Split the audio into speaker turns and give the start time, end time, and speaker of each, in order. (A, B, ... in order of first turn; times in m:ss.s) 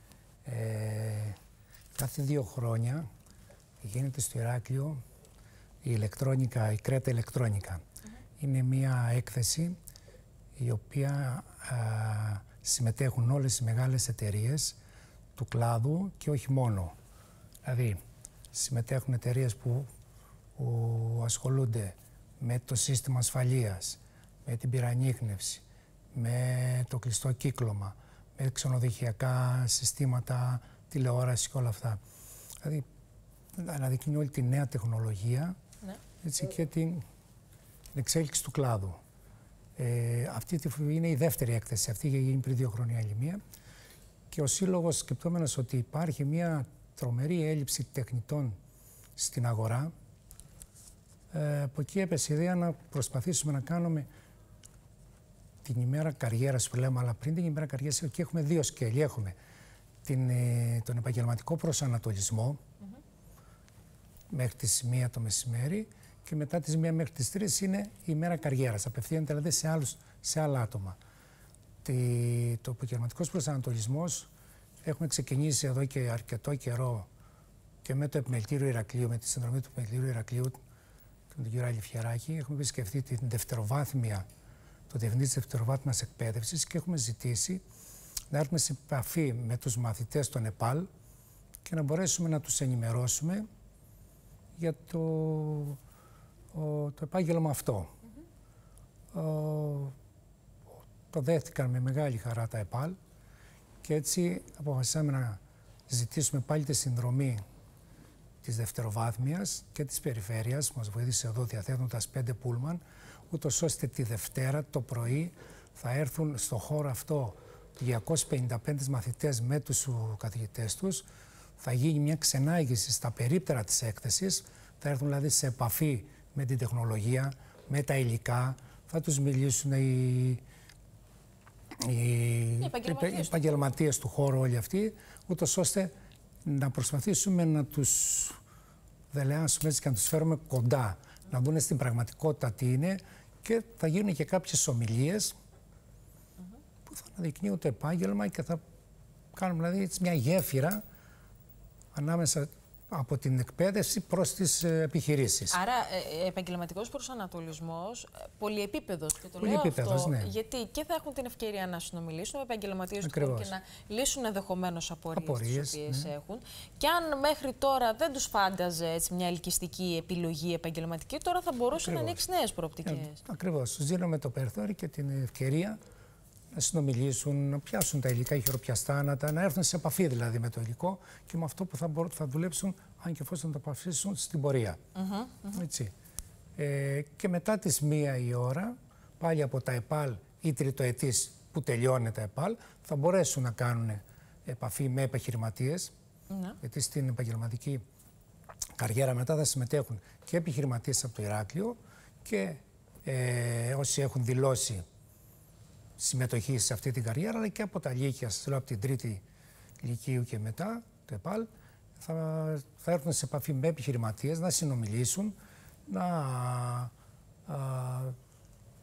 0:00.4-0:01.4 A
0:01.9-0:03.0 A
0:03.8-0:05.0 A
0:05.8-0:07.8 A
0:08.4-0:09.8 A
0:10.6-0:14.8 A
0:15.4-0:16.9 A
0:17.6-0:18.0 A
0:18.5-0:19.9 A
0:20.6-0:32.0 A
0:33.5-0:35.6 A
0:36.2-0:37.0 A
0:37.9-0:39.0 A
0:39.8-0:43.4 A
0:44.3-0:48.6 A
0:49.2-0:49.9 A
0:51.3-0:54.1 A
0:55.6-0:59.4 A
1:00.0-1:02.6 A
1:04.3-1:11.0 A
1:11.8-1:14.3 A
1:14.8-1:17.1 A
1:17.8-1:20.6 A
1:21.3-1:24.2 A
1:24.9-1:27.6 A
1:28.3-1:30.9 A
1:31.6-1:33.4 A
1:34.6-1:35.8 A
1:36.5-1:37.9 A
1:39.1-1:39.9 A
1:41.1-1:43.0 A
1:43.8-1:47.4 A
1:48.4-2:01.0 A
2:01.6-2:10.4 A
2:11.8-2:15.9 A
2:12.6-2:13.7 B
2:16.4-2:18.4 A
2:19.1-2:25.4 A
2:26.8-2:28.6 A
2:29.3-2:30.8 A
2:31.9-2:35.6 A
2:35.5-2:53.2 B
2:39.4-2:40.3 A
2:43.0-2:43.5 A
2:45.1-2:46.1 A
2:51.8-2:52.2 A
2:52.8-2:55.8 A
2:56.5-3:04.8 A
3:04.9-3:05.6 B
3:05.5-3:05.9 A
3:06.6-3:15.9 A
3:16.3-3:16.6 B
3:16.6-3:17.8 A
3:18.8-3:24.8 A
3:26.0-3:29.2 A
3:29.8-3:31.5 A
3:32.0-3:35.3 A
3:35.9-3:36.9 A
3:37.4-3:38.2 A